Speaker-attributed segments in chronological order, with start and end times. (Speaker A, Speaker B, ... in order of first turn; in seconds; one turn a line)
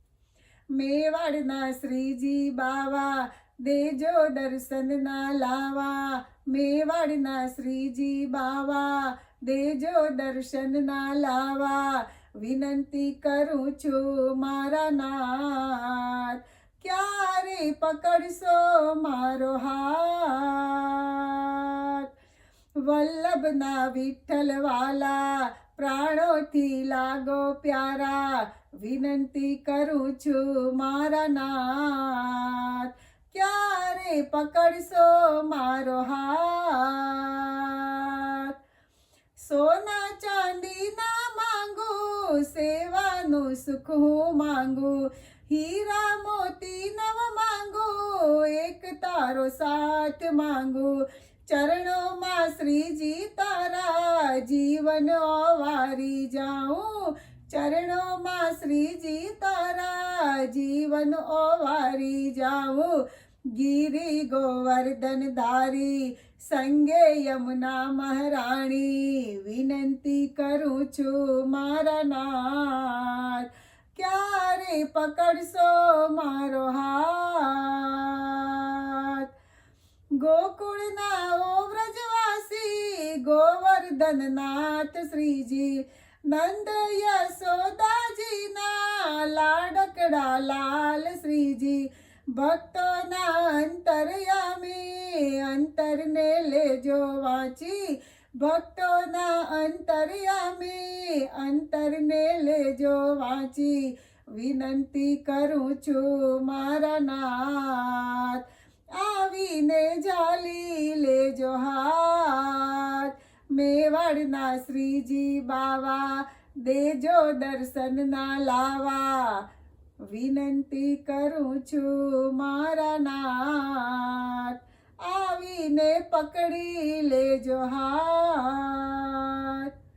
Speaker A: 0.7-22.1
Speaker A: 22.8-38.5
Speaker A: 39.4-63.0
Speaker A: 63.5-79.3
Speaker A: 80.2-108.4
Speaker A: 109.0-119.5
Speaker A: 120.1-129.7